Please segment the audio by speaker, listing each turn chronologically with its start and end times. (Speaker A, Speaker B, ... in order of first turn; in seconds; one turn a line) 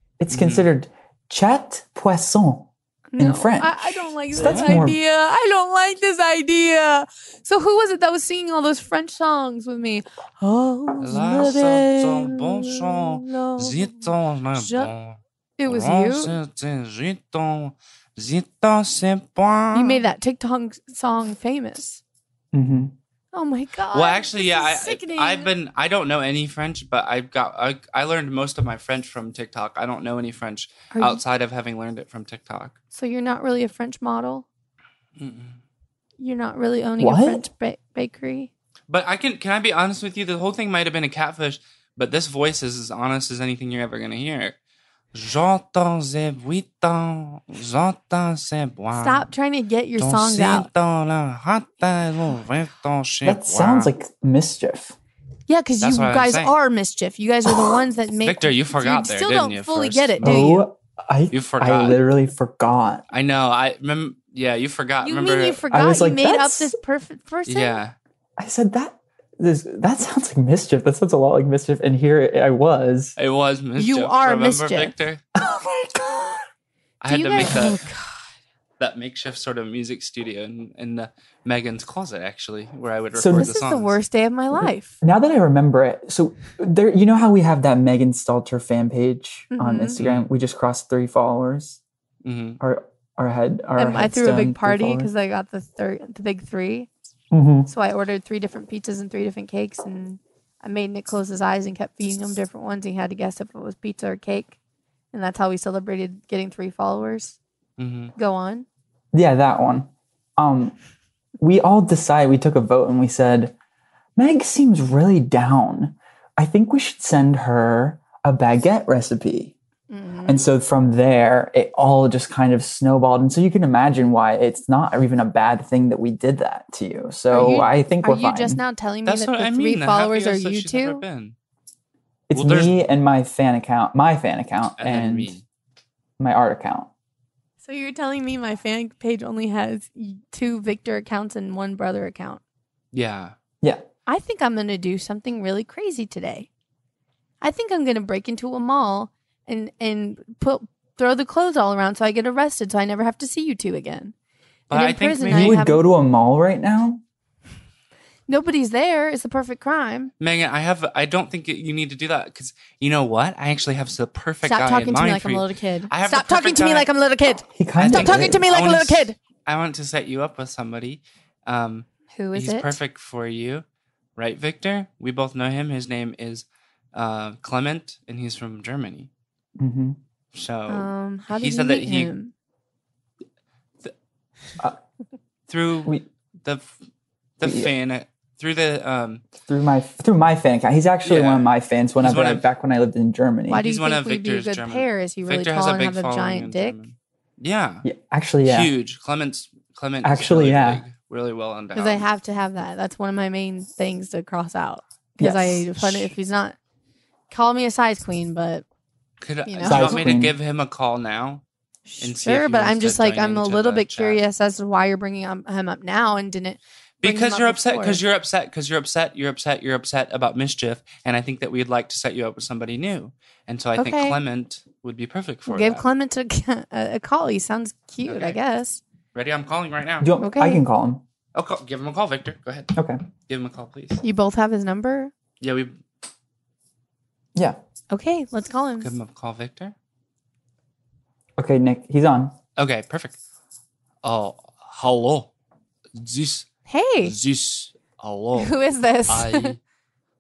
Speaker A: 0.2-5.0
Speaker B: 0.3-0.7
Speaker C: 3.1-14.9
Speaker B: 4.4-4.9
Speaker B: 11.0-20.0
Speaker C: 15.6-16.4
Speaker C: 19.7-22.0
Speaker A: 22.5-22.9
Speaker C: 23.3-25.5
Speaker B: 23.9-32.8
Speaker C: 30.9-31.2
Speaker C: 32.9-34.5
Speaker B: 35.2-35.6
Speaker C: 36.2-38.5
Speaker A: 37.0-37.5
Speaker B: 38.9-44.6
Speaker B: 45.1-49.3
Speaker C: 48.9-50.7
Speaker B: 50.0-53.9
Speaker A: 53.2-55.0
Speaker C: 55.5-60.7
Speaker B: 55.8-56.5
Speaker B: 58.2-60.5
Speaker A: 60.2-63.0
Speaker B: 61.3-62.0
Speaker B: 63.1-65.6
Speaker C: 65.0-67.8
Speaker A: 65.7-66.8
Speaker B: 67.5-68.0
Speaker A: 68.4-73.2
Speaker B: 73.2-75.2
Speaker C: 73.8-75.0
Speaker A: 75.4-76.5
Speaker B: 77.0-77.8
Speaker C: 77.1-78.2
Speaker B: 78.8-84.0
Speaker A: 83.2-83.5
Speaker C: 83.3-85.0
Speaker A: 84.5-91.8
Speaker C: 89.5-90.0
Speaker B: 90.0-90.3
Speaker B: 92.2-92.6
Speaker A: 92.6-95.1
Speaker C: 93.8-96.9
Speaker A: 97.3-97.7
Speaker C: 97.7-104.6
Speaker C: 105.1-107.4
Speaker B: 107.8-108.1
Speaker C: 108.2-108.7
Speaker A: 109.1-110.8
Speaker A: 111.4-113.5
Speaker A: 114.2-119.5
Speaker C: 119.9-120.5
Speaker A: 120.3-128.6
Speaker C: 127.3-131.0
Speaker B: 129.1-131.3
Speaker A: 132.3-135.4
Speaker B: 132.3-132.8
Speaker B: 134.8-135.4
Speaker A: 136.2-136.9
Speaker C: 137.6-142.4
Speaker B: 142.9-143.3
Speaker C: 144.1-146.5
Speaker C: 147.4-154.1
Speaker B: 154.7-155.6
Speaker C: 154.7-155.8
Speaker A: 155.3-157.0
Speaker C: 158.3-160.1
Speaker B: 160.2-166.9
Speaker C: 164.4-169.2
Speaker A: 167.5-168.5
Speaker B: 167.8-173.6
Speaker C: 172.1-172.8
Speaker B: 174.2-179.1
Speaker A: 179.6-180.0
Speaker B: 180.3-182.1
Speaker C: 180.7-182.3
Speaker B: 185.5-186.7
Speaker B: 187.4-189.2
Speaker A: 187.4-187.7
Speaker A: 189.5-193.6
Speaker B: 191.0-192.4
Speaker C: 193.5-196.8
Speaker B: 193.6-197.9
Speaker A: 197.8-198.7
Speaker B: 198.4-202.1
Speaker A: 200.0-200.8
Speaker C: 201.8-206.6
Speaker A: 205.2-206.1
Speaker C: 207.3-208.7
Speaker B: 209.2-211.4
Speaker C: 209.5-210.1
Speaker A: 209.7-210.4
Speaker C: 211.9-218.0
Speaker B: 212.0-214.2
Speaker B: 217.0-225.8
Speaker C: 223.8-224.2
Speaker C: 225.5-228.8
Speaker B: 228.1-228.4
Speaker B: 229.1-230.1
Speaker A: 230.0-231.0
Speaker C: 230.2-230.6
Speaker B: 231.3-232.8
Speaker B: 233.3-234.0
Speaker C: 234.0-235.1
Speaker B: 235.4-235.8
Speaker C: 237.9-238.9
Speaker B: 238.8-239.8
Speaker A: 241.4-242.4
Speaker B: 242.6-243.2
Speaker B: 244.0-245.3
Speaker B: 246.0-246.5
Speaker C: 246.7-247.2
Speaker B: 247.0-248.6
Speaker C: 248.3-249.6
Speaker B: 249.1-249.6